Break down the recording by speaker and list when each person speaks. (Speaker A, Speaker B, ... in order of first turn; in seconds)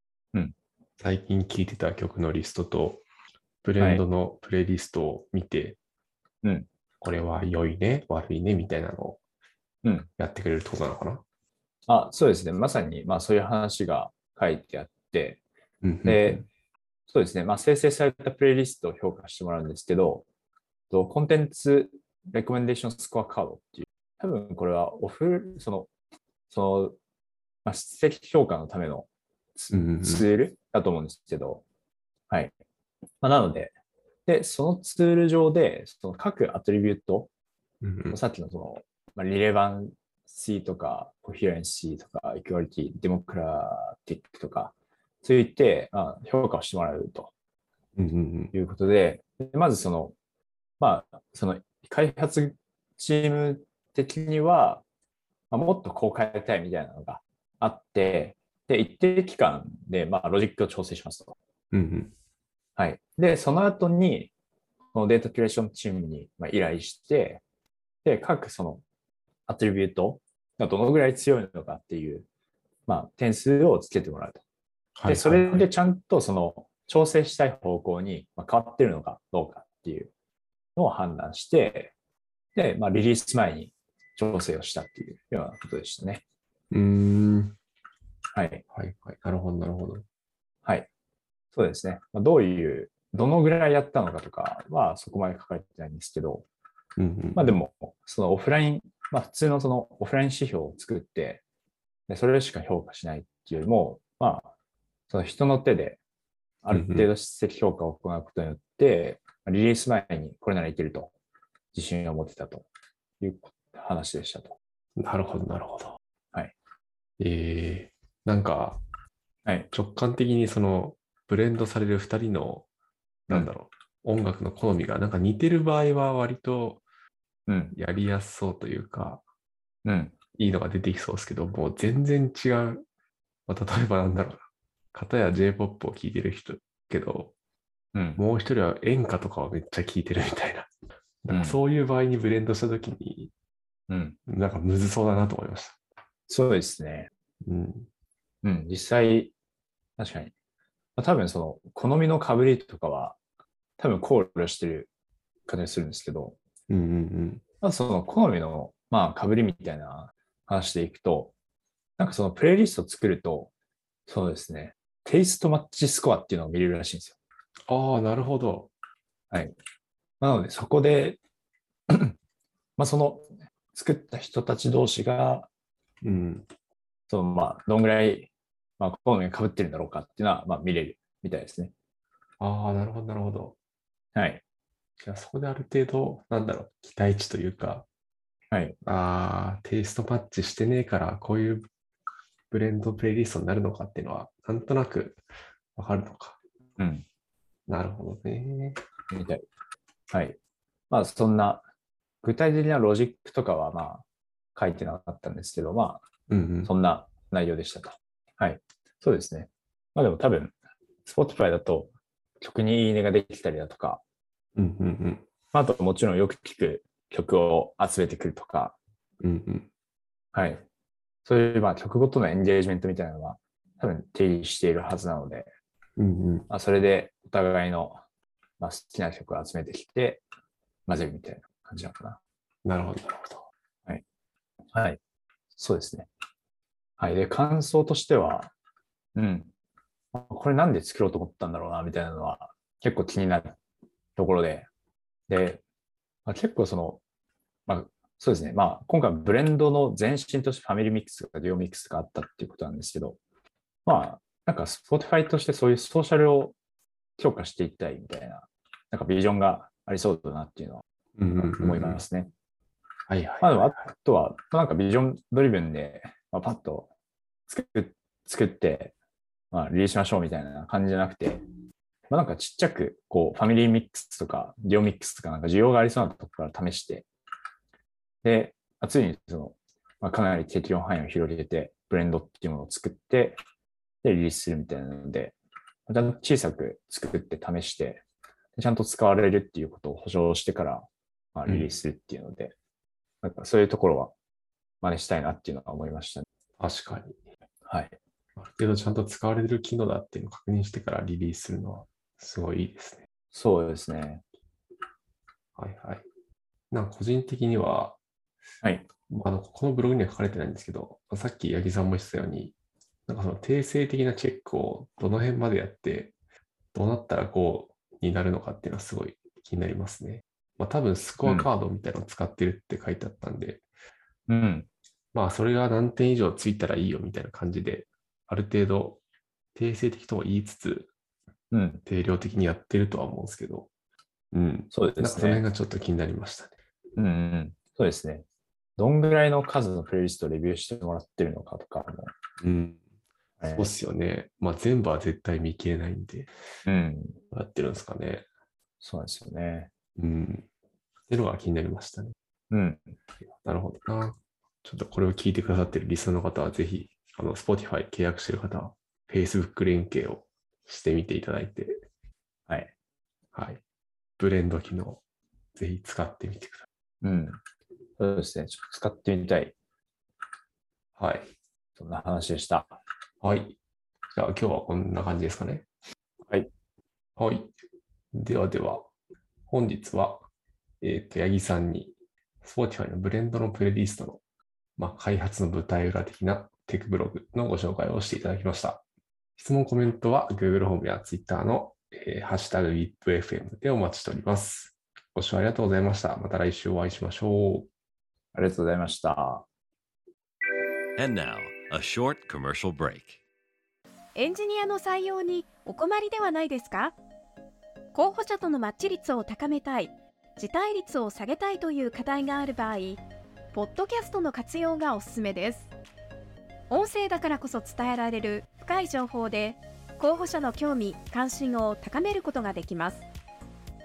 Speaker A: 1.0-3.0, 3.6-5.8, 7.0-9.2, 10.2-11.2, 15.8-16.5, 29.7-30.3, 37.8-38.2, 48.0-48.5, 61.7-62.1, 75.0-75.7, 86.7-87.6, 88.7-90.0, 97.0-97.5, 106.7-107.1, 115.0-116.0, 117.2-118.8, 119.7-122.7, 123.3-126.8, 127.7-129.2, 130.3-132.8, 133.5-137.3, 138.2-140.7, 141.2-143.3, 144.3-145.8, 147.4-147.9, 156.7-157.4, 167.7-168.7, 176.0-176.5, 182.4-183.6, 185.0-187.9, 188.8-191.7, 192.5-195.2, 195.8-196.4, 197.7-198.8, 206.3-206.7, 214.6-215.3, 219.2-219.7, 226.0-226.5, 232.7-233.4, 261.2-262.0, 263.1-263.8, 291.5-291.7, 296.6-297.2, 298.4-303.1, 305.6-306.1, 306.7-308.0, 309.1-312.6, 313.1-316.1, 316.7-323.6, 325.1-329.0, 329.5-330.9, 331.9-333.7, 334.3-336.6, 342.4-342.8, 343.5-346.3, 347.3-348.3, 350.0-350.5, 351.1-352.1, 353.4-361.8, 363.3-363.6, 364.2-365.0, 365.6-366.7, 371.0-371.3, 373.2-373.6, 374.1-375.7, 377.2-377.5, 378.1-378.9, 379.5-380.2, 380.8-384.2, 384.8-388.8, 389.4-397.7
Speaker B: 9.8-10.1, 11.9-15.4, 16.0-16.4, 17.1-20.2, 20.9-25.9, 26.5-27.0, 27.6-31.6, 33.2-33.7, 34.3-37.3, 38.1-47.3, 48.5-50.1, 50.8-54.8, 55.5-61.4, 62.8-64.3, 64.9-67.4, 68.0-68.8, 69.5-72.3, 72.9-74.4, 75.1-80.1, 80.8-81.9, 82.5-86.2, 88.3-88.6, 91.5-96.5, 97.3-101.4, 102.1-104.5, 105.1-106.0, 106.6-111.1, 111.7-112.7, 113.2-114.5, 127.5-127.8, 129.8-130.2, 137.9-138.2, 141.3-141.6, 143.9-144.2, 146.3-147.1, 148.4-149.3, 150.0-150.3, 151.0-153.2, 153.8-154.9, 155.5-156.4, 157.6-161.3, 162.0-163.5, 164.1-167.2, 170.2-171.2, 171.9-172.2, 172.8-175.5, 177.1-181.7, 184.2-184.4, 188.5-188.8, 196.8-197.1, 199.1-199.4, 200.1-200.4, 200.9-201.6, 202.2-204.0, 204.6-206.0, 206.7-210.5, 211.1-214.0, 215.5-218.8, 220.3-220.7, 221.2-225.5, 226.5-228.0, 228.6-230.2, 230.9-232.2, 234.7-235.0, 235.5-236.1, 237.0-238.5, 239.2-239.5, 240.1-243.6, 244.2-244.7, 245.3-245.6, 246.3-247.0, 247.7-253.2, 253.9-256.6, 257.2-260.8, 261.4-262.3, 263.4-266.9, 267.5-268.9, 269.5-271.4, 272.1-277.1, 278.2-283.4, 284.0-285.4, 285.9-288.0, 288.6-292.6, 293.2-294.1, 294.8-296.3, 297.7-298.0, 303.3-304.2, 321.2-321.5, 324.3-324.7, 331.5-331.8, 334.7-335.4, 337.0-338.2, 338.8-342.1, 343.4-343.7, 346.7-347.2, 348.8-349.7, 352.5-352.9, 367.0-367.4, 368.0-369.6, 371.8-372.8, 398.3-399.5
Speaker C: 401.0-403.2
Speaker D: 404.1-406.9, 407.9-413.0, 413.5-415.7, 416.7-423.1